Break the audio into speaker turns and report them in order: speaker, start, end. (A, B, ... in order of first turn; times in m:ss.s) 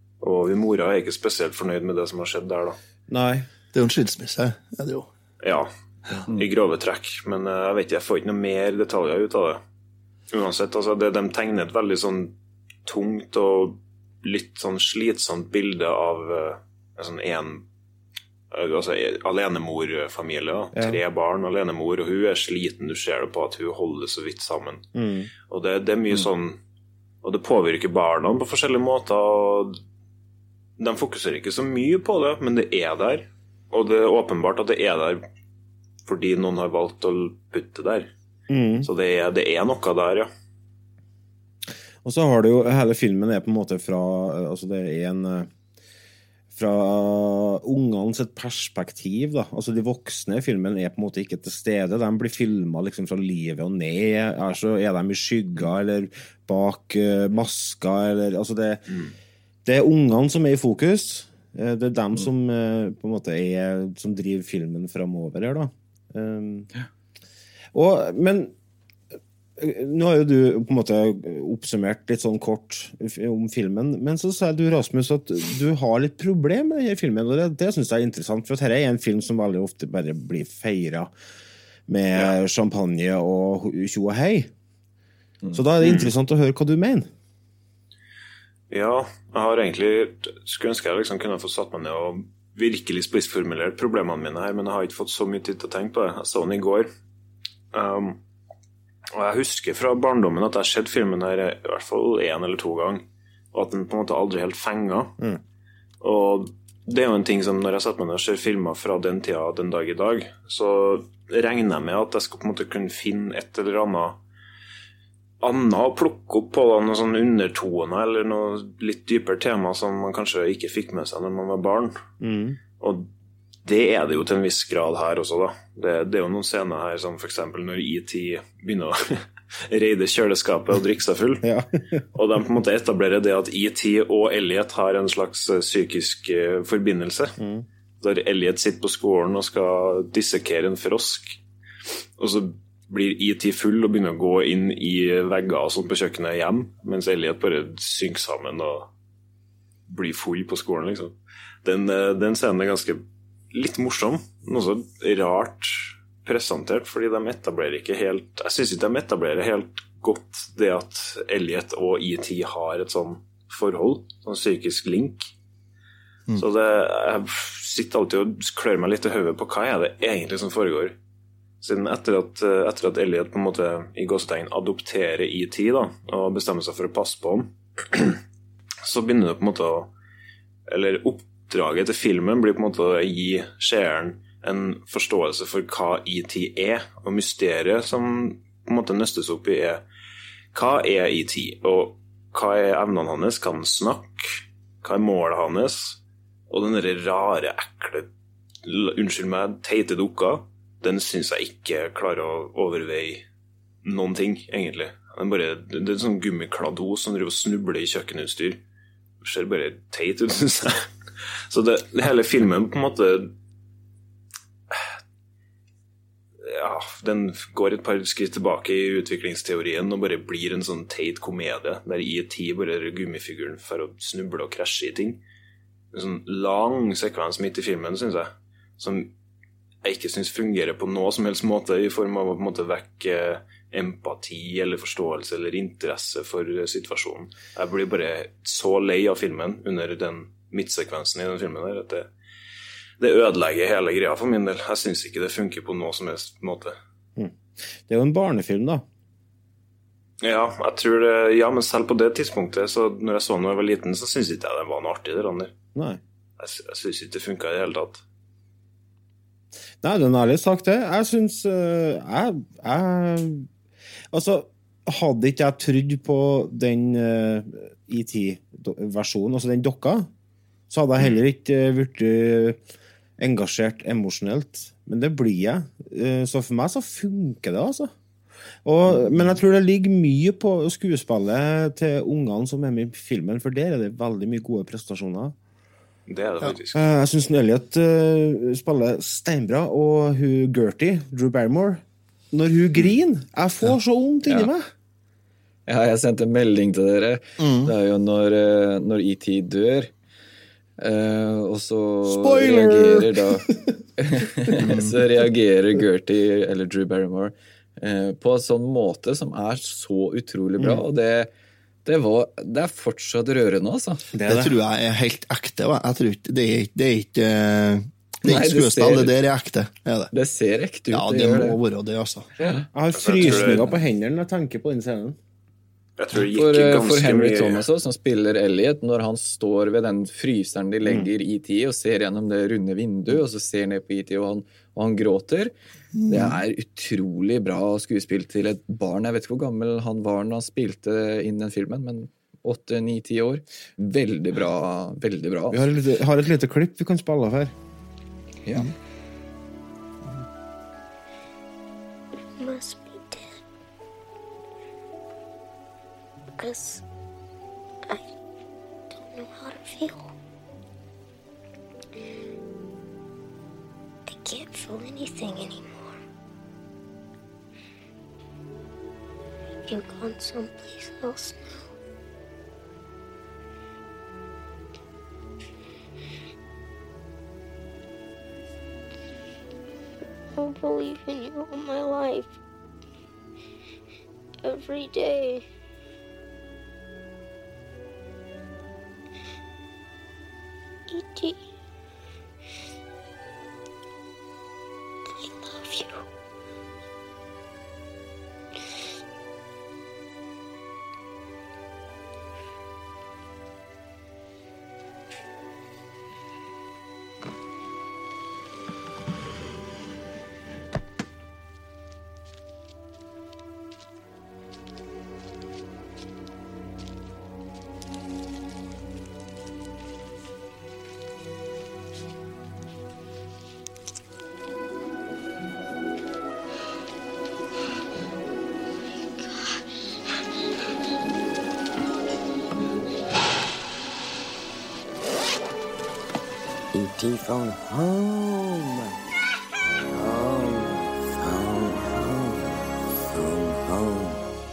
0:00.2-0:02.8 A
0:03.1-0:03.5 B
0:03.7-0:05.1 C
0:05.4-0:05.7 A
0:06.3-0:09.6 A
0:10.3-0:17.6 A
0:18.5-0:24.8 A
0:20.7-0:21.0 B
0:25.0-0:25.3 B
0:25.5-0:26.6 A
0:27.2-0:29.8 A
0:30.8-0:35.2 A
0:36.1-0:38.1 A
0:38.5-0:38.9 B
0:38.8-0:40.3 A
0:42.0-0:45.5 B
0:46.5-0:59.0 B
0:59.6-1:06.7 B
1:07.7-1:08.5 B
1:09.6-1:21.1 B
1:21.9-1:24.5 B
1:25.5-1:27.1 B
1:25.8-1:26.1 A
1:28.7-1:36.9 A
1:37.7-1:38.2 A
1:39.1-1:45.2 A
1:46.0-1:54.2 A
1:55.4-2:02.0 A
2:02.2-2:02.6 B
2:02.8-2:03.1 A
2:03.6-2:11.5 A
2:11.4-2:12.0 B
2:12.1-2:17.4 A
2:17.4-2:17.7 B
2:18.0-2:21.4 A
2:22.2-2:28.9 A
2:29.9-2:33.0 A
2:33.5-2:45.3 A
2:46.4-2:51.0 A
2:51.6-2:58.2 A
2:58.8-2:59.9 A
3:00.7-3:09.8 A
3:10.5-3:16.0 A
3:16.5-3:18.1 A
3:18.6-3:23.2 A
3:23.8-3:28.6 A
3:29.2-3:30.8 A
3:31.5-3:33.3 A
3:36.4-3:45.2 A
3:45.9-3:49.1 A
3:49.8-4:02.1 A
4:03.0-4:06.8 A
4:07.2-4:08.8 B
4:10.2-4:15.5 A
4:15.8-4:16.0 B
4:16.4-4:18.0 A
4:19.8-4:23.5 B
4:24.1-4:30.1 B
4:30.7-4:32.6 B
4:33.2-4:37.9 B
4:38.6-4:45.4 B
4:46.1-4:46.8 A
4:46.7-4:54.7 B
4:55.7-4:59.9 D
4:57.4-4:57.7 C
5:00.8-5:03.5 D
5:02.0-5:03.8 B
5:04.0-5:11.3 D
5:04.6-5:05.0 C
5:11.8-5:14.1 D
5:14.1-5:14.6 B
5:14.3-5:20.1 C
5:18.2-5:19.2 D
5:20.1-5:21.6 D
5:20.9-5:22.3 C
5:22.4-5:22.6 D
5:22.7-5:25.2 B
5:22.9-5:23.7 A
5:23.2-5:23.5 D
5:26.0-5:27.7 A
5:26.3-5:35.5 D
5:30.8-5:31.1 B
5:36.0-5:36.4 C
5:36.1-5:45.6 D
5:45.5-5:47.5 B
5:52.4-5:53.3 E
5:56.4-5:56.8 E
5:59.0-6:00.1 E
6:04.1-6:06.0 E
6:09.7-6:11.7 E
6:20.4-6:22.4 E
6:24.4-6:25.4 E
6:30.9-6:31.4 E
6:35.2-6:36.0 E
7:16.7-7:19.0 F
7:19.9-7:22.5 F
7:23.1-7:24.2 F